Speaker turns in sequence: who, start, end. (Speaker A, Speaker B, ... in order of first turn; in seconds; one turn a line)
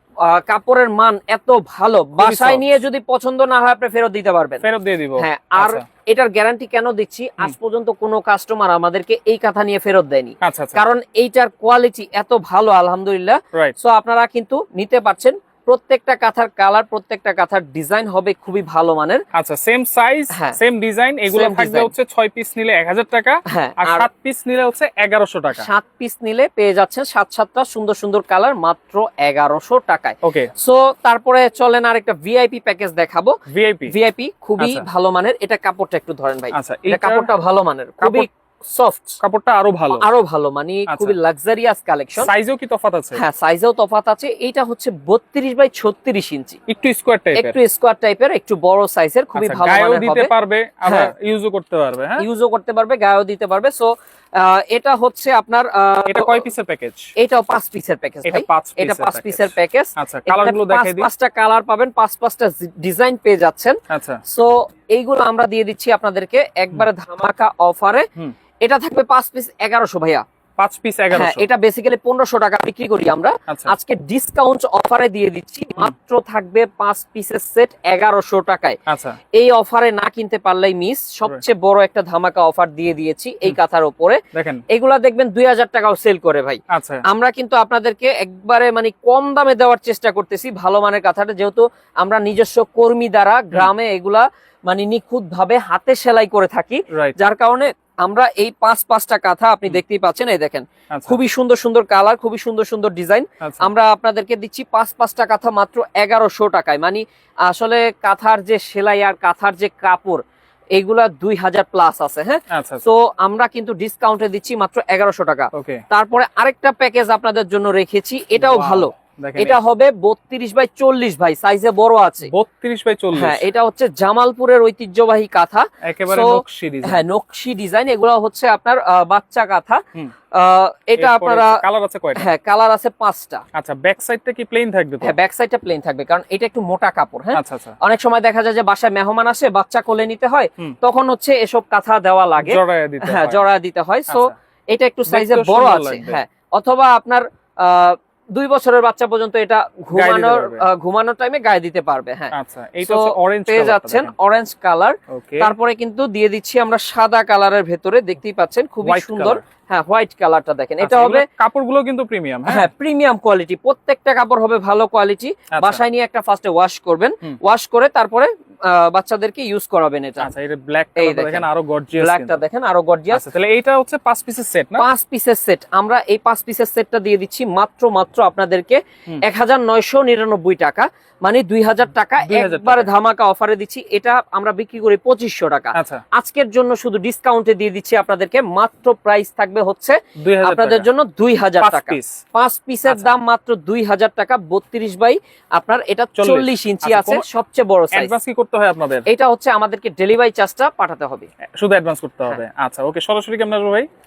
Speaker A: 0.2-4.6
Speaker B: 2.2-2.7
Speaker B: 4.6-5.8
Speaker A: 5.2-19.2
Speaker B: 10.4-10.8
Speaker B: 19.3-25.7
Speaker A: 20.3-20.6
Speaker A: 21.2-21.9
Speaker A: 23.5-24.1
Speaker A: 25.5-39.2
Speaker B: 30.2-30.5
Speaker B: 33.5-33.9
Speaker B: 34.6-34.9
Speaker B: 36.5-37.3
Speaker B: 38.0-38.3
Speaker B: 39.2-40.0
Speaker A: 39.9-42.3
Speaker B: 40.9-41.1
Speaker B: 42.2-43.2
Speaker A: 43.1-46.6
Speaker B: 46.7-47.6
Speaker A: 47.3-50.3
Speaker B: 49.4-52.2
Speaker A: 50.8-51.1
Speaker A: 52.2-56.4
Speaker B: 56.1-57.1
Speaker A: 57.2-68.1
Speaker B: 58.2-61.1
Speaker B: 63.9-64.2
Speaker A: 68.6-70.2
Speaker B: 70.6-71.5
Speaker A: 71.1-78.8
Speaker B: 78.9-79.2
Speaker A: 79.3-110.2
Speaker B: 84.3-84.6
Speaker B: 86.7-87.0
Speaker B: 96.9-97.2
Speaker B: 100.9-101.2
Speaker B: 103.4-103.7
Speaker A: 110.8-122.3
Speaker B: 112.5-112.9
Speaker B: 115.5-115.8
Speaker B: 118.3-119.6
Speaker B: 122.3-123.4
Speaker A: 123.1-129.8
Speaker B: 125.8-127.0
Speaker A: 130.3-131.6
Speaker B: 131.0-132.2
Speaker A: 132.2-133.4
Speaker B: 133.5-135.2
Speaker A: 135.0-161.2
Speaker B: 137.3-137.7
Speaker B: 142.4-143.4
Speaker B: 144.1-144.3
Speaker B: 145.1-146.2
Speaker B: 149.9-150.6
Speaker B: 152.3-154.1
Speaker B: 155.1-155.5
Speaker B: 158.8-159.4
Speaker B: 160.8-162.7
Speaker A: 162.5-170.3
Speaker B: 165.5-165.8
Speaker B: 170.2-172.4
Speaker A: 170.9-173.2
Speaker B: 173.1-174.9
Speaker A: 174.8-198.1
Speaker B: 182.2-182.9
Speaker B: 185.7-186.0
Speaker B: 190.2-190.9
Speaker B: 191.6-192.2
Speaker B: 196.2-197.2
Speaker B: 197.9-199.0
Speaker A: 199.1-201.3
Speaker B: 201.6-203.9